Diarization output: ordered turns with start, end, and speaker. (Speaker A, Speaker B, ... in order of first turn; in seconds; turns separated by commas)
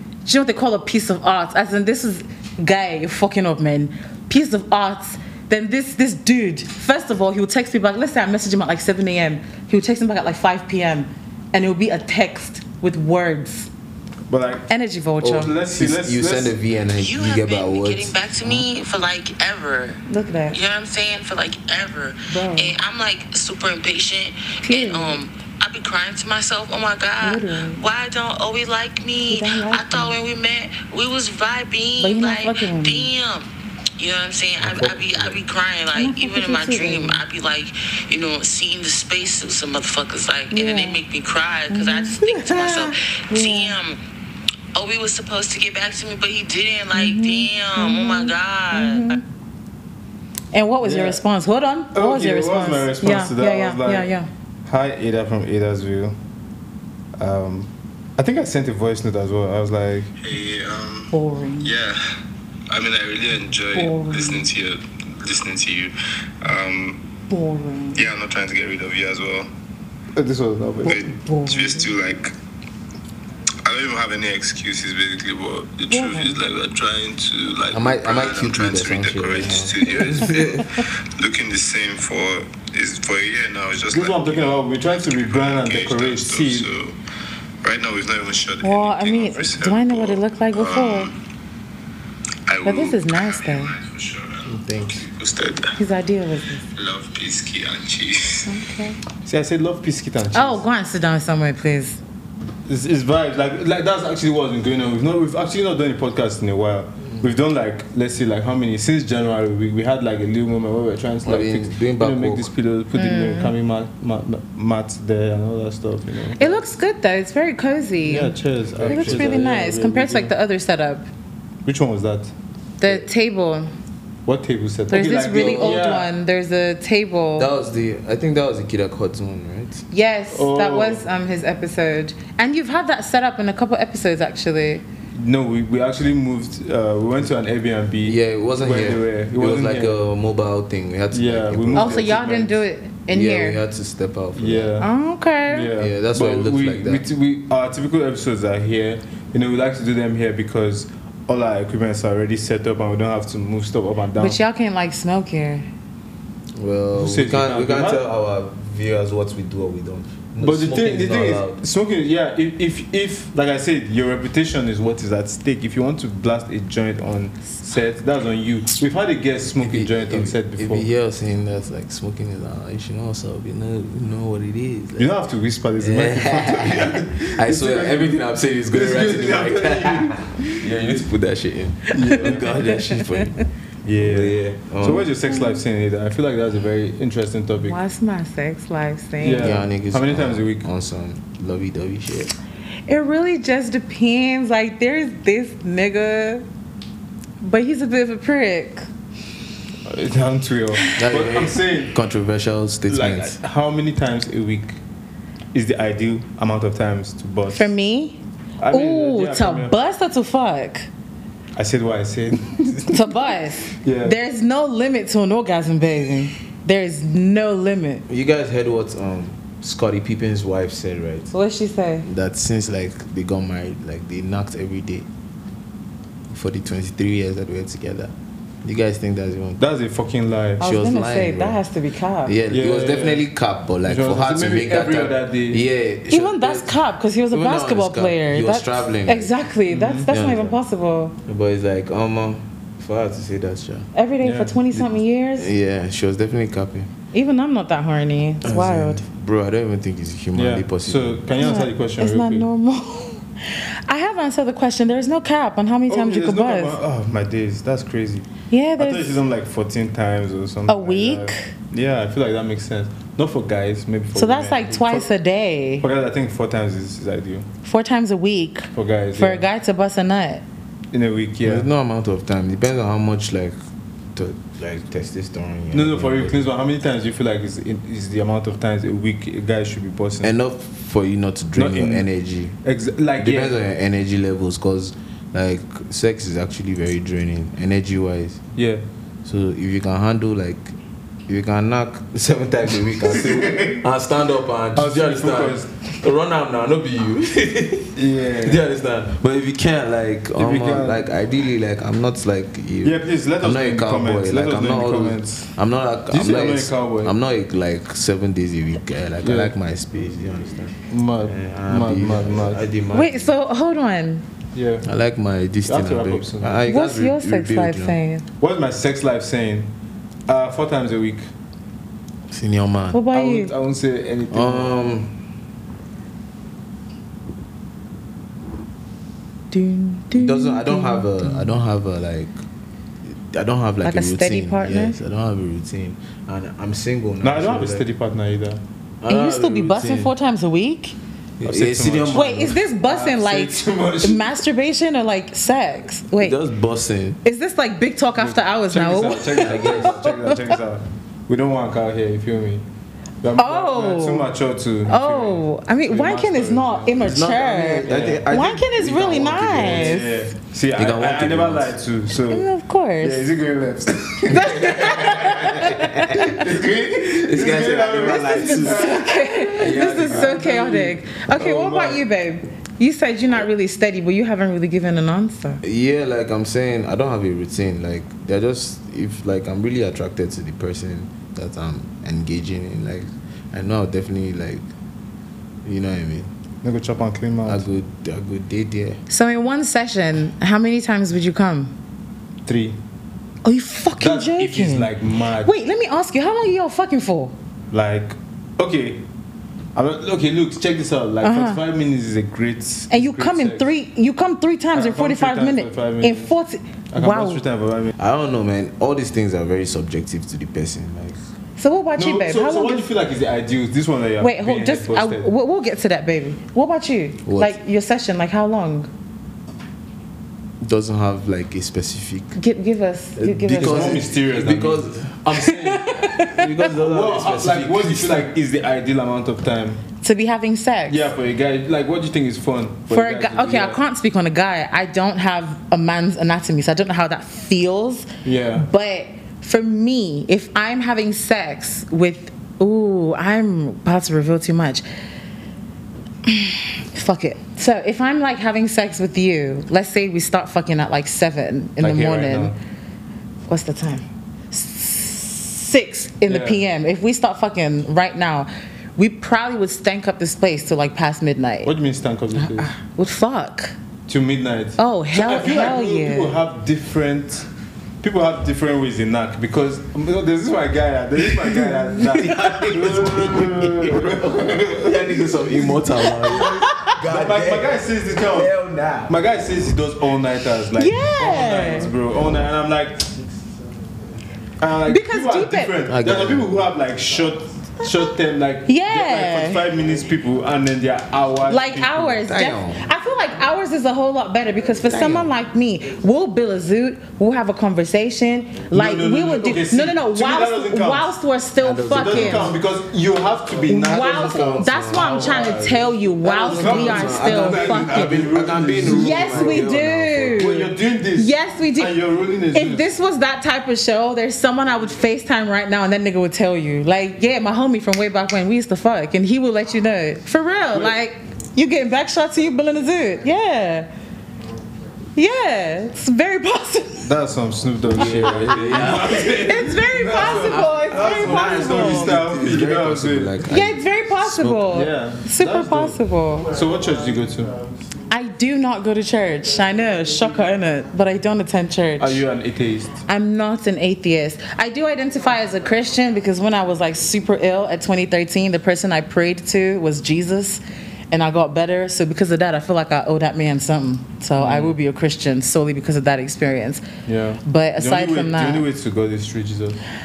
Speaker A: 0.2-13.7, Speaker B: 14.3-14.7, Speaker A: 14.7-15.5, Speaker C: 15.2-18.6, Speaker B: 15.2-16.5, Speaker D: 16.9-20.0, Speaker A: 20.1-20.6, Speaker D: 20.5-44.0, Speaker A: 22.3-22.7, Speaker A: 24.6-25.2, Speaker A: 27.2-27.8, Speaker A: 29.3-30.1, Speaker A: 32.0-33.1, Speaker C: 34.6-35.4, Speaker A: 35.9-37.2, Speaker A: 40.5-41.0, Speaker A: 41.7-43.8, Speaker D: 44.7-49.2, Speaker A: 46.9-49.2, Speaker A: 50.5-54.3, Speaker B: 50.8-51.2, Speaker B: 51.9-54.1, Speaker B: 54.6-56.2, Speaker B: 57.2-60.1, Speaker E: 60.2-62.0, Speaker A: 61.1-61.7, Speaker E: 62.7-67.0, Speaker A: 63.7-64.5, Speaker A: 67.3-68.0, Speaker E: 67.9-69.5, Speaker B: 70.1-71.0, Speaker A: 70.8-71.9, Speaker E: 70.9-72.3, Speaker E: 73.6-84.3, Speaker A: 75.9-76.3, Speaker C: 77.7-80.4, Speaker B: 83.9-86.7, Speaker E: 85.1-87.0, Speaker E: 87.6-91.1, Speaker A: 88.6-91.1, Speaker E: 92.5-95.8, Speaker A: 92.6-93.8, Speaker C: 94.5-95.1, Speaker A: 95.8-96.6, Speaker E: 96.7-98.5, Speaker A: 98.4-99.0, Speaker B: 99.2-100.6, Speaker A: 100.3-102.0, Speaker B: 102.7-116.5, Speaker C: 111.2-112.5, Speaker A: 112.9-113.5, Speaker A: 116.4-121.1, Speaker B: 118.0-120.3, Speaker C: 118.8-119.5, Speaker B: 121.6-123.0, Speaker A: 122.8-123.7, Speaker B: 124.2-126.1, Speaker A: 124.9-127.5, Speaker C: 125.3-126.0, Speaker C: 127.4-129.8, Speaker A: 129.9-134.8, Speaker B: 130.3-131.0, Speaker B: 135.1-140.0, Speaker C: 138.0-142.1, Speaker B: 141.1-142.6, Speaker A: 141.7-143.6, Speaker C: 143.1-144.8, Speaker B: 144.3-144.9, Speaker A: 144.8-145.7, Speaker B: 145.5-154.4, Speaker C: 145.8-147.1, Speaker A: 154.2-155.7, Speaker C: 156.5-161.6, Speaker B: 156.9-158.1, Speaker B: 160.4-170.9, Speaker C: 169.6-175.1, Speaker B: 174.9-180.7, Speaker C: 175.8-183.4, Speaker B: 181.9-182.7, Speaker B: 183.8-187.8, Speaker C: 184.0-185.1, Speaker A: 187.6-189.6, Speaker B: 189.2-190.7, Speaker C: 189.3-192.3, Speaker A: 192.9-196.4, Speaker A: 197.4-198.9, Speaker B: 199.8-201.9, Speaker C: 201.0-203.4, Speaker B: 202.9-204.8, Speaker B: 205.5-207.7, Speaker A: 207.5-210.9, Speaker B: 208.6-209.8, Speaker B: 211.5-213.0, Speaker A: 212.9-218.0, Speaker B: 213.8-214.2, Speaker C: 218.1-221.3, Speaker A: 221.3-222.1, Speaker C: 222.0-225.1, Speaker C: 226.3-228.1, Speaker C: 228.6-229.6, Speaker B: 229.6-230.7, Speaker C: 230.6-231.6, Speaker A: 230.6-232.3, Speaker C: 232.2-236.8, Speaker B: 232.5-233.3, Speaker B: 233.8-235.6, Speaker A: 236.1-241.2, Speaker C: 237.3-239.3, Speaker B: 239.7-240.1, Speaker C: 240.1-240.6, Speaker C: 241.2-243.9, Speaker A: 243.9-245.5, Speaker B: 244.2-244.6, Speaker C: 245.4-246.9, Speaker A: 247.1-249.0, Speaker C: 248.4-251.2, Speaker B: 250.3-252.5, Speaker A: 251.4-256.8, Speaker B: 255.9-258.3, Speaker A: 258.5-259.1, Speaker B: 258.8-265.1, Speaker A: 260.7-261.5, Speaker A: 264.1-265.9, Speaker B: 265.8-267.5, Speaker A: 267.6-270.4, Speaker B: 268.7-269.5, Speaker B: 270.9-271.7, Speaker C: 271.4-273.6, Speaker C: 274.1-276.4, Speaker B: 275.7-280.3, Speaker C: 280.2-282.5, Speaker B: 281.6-282.1, Speaker B: 282.6-283.6, Speaker C: 283.2-288.4, Speaker B: 288.6-288.8, Speaker C: 289.2-290.7, Speaker C: 291.3-313.3, Speaker B: 293.0-293.8, Speaker B: 294.7-295.8, Speaker B: 297.9-298.6, Speaker B: 300.4-301.1, Speaker B: 302.8-305.5, Speaker B: 306.1-307.1, Speaker B: 309.2-309.5, Speaker B: 310.9-312.6, Speaker A: 312.9-314.2, Speaker B: 314.5-314.9, Speaker C: 314.8-318.0, Speaker B: 315.6-316.6, Speaker A: 316.7-318.2, Speaker B: 318.4-319.7, Speaker B: 320.3-321.3, Speaker C: 322.3-323.0, Speaker A: 322.9-323.5, Speaker B: 323.1-324.8, Speaker C: 324.3-325.1, Speaker A: 329.5-331.6, Speaker C: 330.1-332.4, Speaker C: 333.1-337.8, Speaker A: 333.8-335.0, Speaker B: 337.2-338.6, Speaker C: 339.0-340.1, Speaker A: 339.1-341.0, Speaker B: 341.4-344.3, Speaker C: 341.4-342.6, Speaker A: 342.1-346.4, Speaker C: 346.2-347.2, Speaker A: 347.2-350.6, Speaker B: 348.2-352.6, Speaker C: 349.4-350.0, Speaker B: 353.2-357.1, Speaker A: 353.4-354.3, Speaker A: 354.9-360.2, Speaker C: 357.0-360.0, Speaker B: 357.8-358.2, Speaker B: 359.5-362.5, Speaker C: 360.8-361.7, Speaker A: 362.3-363.3, Speaker B: 363.0-372.0, Speaker A: 364.3-366.4, Speaker C: 364.5-370.5, Speaker A: 368.0-375.6, Speaker C: 375.6-384.6, Speaker C: 385.6-386.3, Speaker B: 386.6-387.6, Speaker C: 387.4-389.0, Speaker A: 389.1-391.7, Speaker B: 392.4-392.8, Speaker A: 393.4-397.3, Speaker B: 394.0-395.5, Speaker B: 397.7-399.0, Speaker B: 399.7-403.7, Speaker A: 401.2-401.6, Speaker A: 402.9-407.4, Speaker B: 404.7-406.3, Speaker B: 406.9-407.9, Speaker C: 408.0-411.2, Speaker A: 411.6-412.9, Speaker B: 412.0-415.3, Speaker A: 414.2-418.9, Speaker C: 417.2-417.6, Speaker C: 420.6-422.4, Speaker A: 422.3-424.1, Speaker C: 423.2-428.2, Speaker B: 423.6-424.9, Speaker A: 425.3-426.6, Speaker B: 426.6-429.8, Speaker A: 430.0-431.1, Speaker B: 430.9-433.8, Speaker A: 432.9-444.8, Speaker B: 438.2-438.6, Speaker A: 446.2-452.5, Speaker B: 451.8-452.6, Speaker A: 453.5-461.7, Speaker B: 456.2-456.6, Speaker B: 461.6-462.7, Speaker A: 462.4-463.8, Speaker B: 464.1-467.5, Speaker A: 464.8-466.4, Speaker B: 468.0-475.8, Speaker A: 472.0-472.6, Speaker C: 472.0-479.2, Speaker A: 476.2-476.9, Speaker B: 477.0-483.1, Speaker A: 480.8-481.9, Speaker B: 484.6-492.3, Speaker A: 484.9-485.8, Speaker C: 485.9-486.5, Speaker A: 488.7-489.7, Speaker A: 491.5-502.5, Speaker C: 492.2-492.8, Speaker C: 494.9-495.3, Speaker B: 498.7-501.1, Speaker C: 501.6-502.6, Speaker B: 501.9-509.7, Speaker C: 503.6-505.6, Speaker A: 503.7-508.2, Speaker C: 506.2-510.5, Speaker A: 508.8-512.0, Speaker B: 510.3-512.9, Speaker A: 512.5-523.9, Speaker A: 525.1-527.1, Speaker B: 527.0-533.4, Speaker C: 527.9-533.8, Speaker A: 528.5-532.2, Speaker A: 533.5-536.5, Speaker B: 534.2-537.6, Speaker A: 538.1-542.2, Speaker B: 542.0-543.0, Speaker A: 543.0-556.8, Speaker B: 554.4-554.8, Speaker B: 557.0-559.8, Speaker A: 557.4-558.6